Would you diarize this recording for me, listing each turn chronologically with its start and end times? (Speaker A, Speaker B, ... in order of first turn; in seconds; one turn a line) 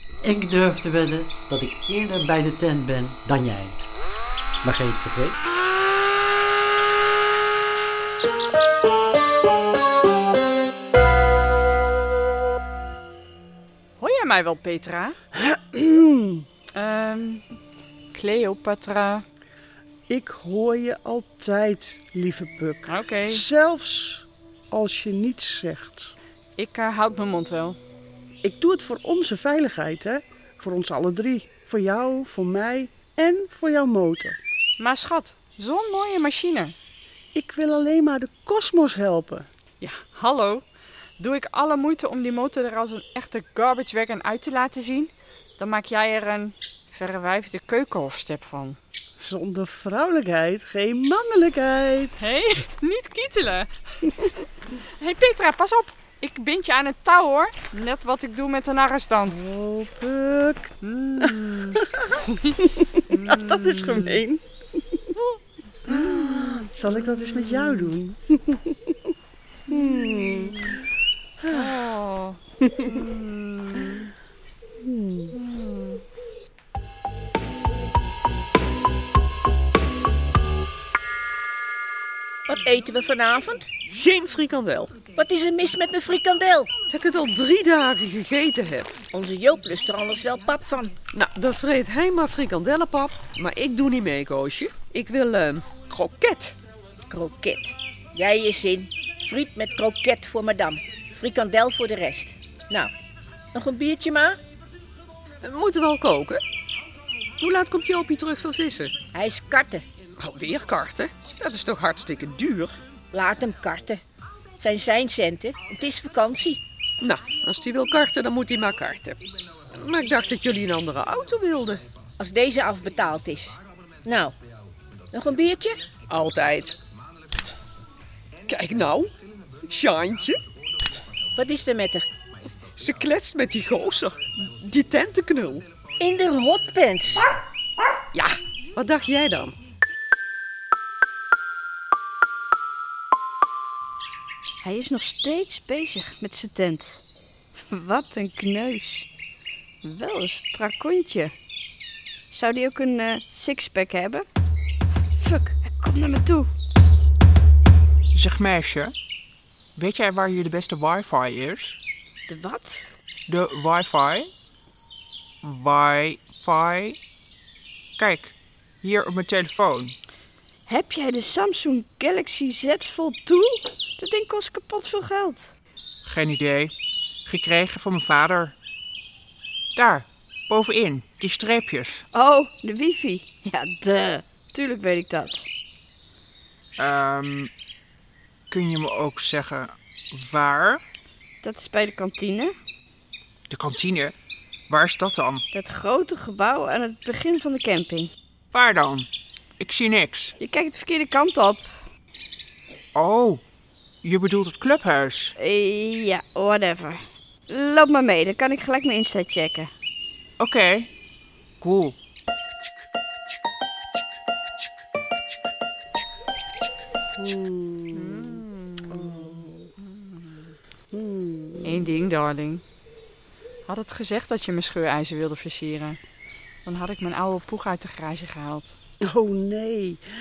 Speaker A: 0.2-3.8
Speaker A: 4.6-5.4
Speaker B: 14.0-15.2
Speaker C: 15.4-16.4
Speaker B: 16.8-17.4
Speaker B: 18.1-19.2
Speaker C: 20.1-26.1
Speaker B: 22.9-23.4
Speaker B: 26.6-27.8
Speaker C: 28.4-34.4
Speaker B: 34.8-36.7
Speaker C: 37.3-39.5
Speaker B: 39.8-40.6
Speaker B: 41.2-48.8
Speaker C: 49.2-52.3
Speaker B: 52.2-54.1
Speaker B: 55.0-59.4
Speaker C: 59.3-60.7
Speaker B: 60.8-61.8
Speaker B: 63.1-64.2
Speaker C: 63.2-64.4
Speaker B: 65.9-66.6
Speaker C: 65.9-68.6
Speaker C: 69.7-70.6
Speaker B: 69.7-70.7
Speaker C: 71.4-71.7
Speaker B: 71.5-74.0
Speaker C: 74.8-75.3
Speaker B: 75.3-76.0
Speaker D: 82.5-83.7
Speaker E: 83.9-85.0
Speaker D: 85.1-86.7
Speaker E: 86.9-89.0
Speaker D: 89.1-91.0
Speaker E: 91.1-96.5
Speaker D: 97.1-102.9
Speaker D: 103.5-104.4
Speaker E: 105.4-106.4
Speaker E: 107.4-108.9
Speaker D: 109.1-109.8
Speaker E: 110.2-112.8
Speaker D: 113.1-114.0
Speaker D: 114.6-116.6
Speaker E: 117.0-119.2
Speaker E: 119.7-121.8
Speaker D: 122.2-124.3
Speaker D: 125.1-125.8
Speaker E: 126.1-126.8
Speaker E: 128.5-129.1
Speaker E: 129.7-130.4
Speaker D: 131.3-132.1
Speaker E: 132.8-135.6
Speaker D: 136.0-137.3
Speaker E: 138.1-139.6
Speaker F: 144.6-147.0
Speaker F: 147.5-149.1
Speaker F: 149.8-151.3
Speaker F: 152.3-154.3
Speaker F: 155.2-156.5
Speaker G: 158.1-158.9
Speaker G: 159.8-161.8
Speaker F: 162.3-162.9
Speaker G: 163.3-164.3
Speaker G: 165.4-167.0
Speaker G: 168.0-169.9
Speaker F: 170.7-175.5
Speaker G: 176.0-176.7
Speaker G: 177.2-178.6
Speaker G: 179.7-182.0
Speaker F: 182.1-185.4
Speaker G: 186.8-187.5
Speaker G: 188.5-190.8
Speaker F: 191.4-192.6
Speaker G: 193.5-194.1
Speaker G: 194.7-195.4
Speaker F: 195.5-198.1
Speaker G: 198.5-199.1
Speaker G: 199.6-200.3
Speaker F: 200.4-201.8
Speaker G: 202.9-203.4
Speaker G: 204.0-205.3
Speaker F: 205.4-209.7
Speaker G: 210.4-210.9
Speaker G: 211.6-211.9
Speaker C: 217.2-218.4
Speaker B: 217.9-219.5
Speaker C: 218.9-219.7
Speaker C: 220.9-221.8
Speaker B: 221.6-222.6
Speaker B: 223.7-226.0
Speaker B: 226.6-228.7
Speaker C: 229.0-230.0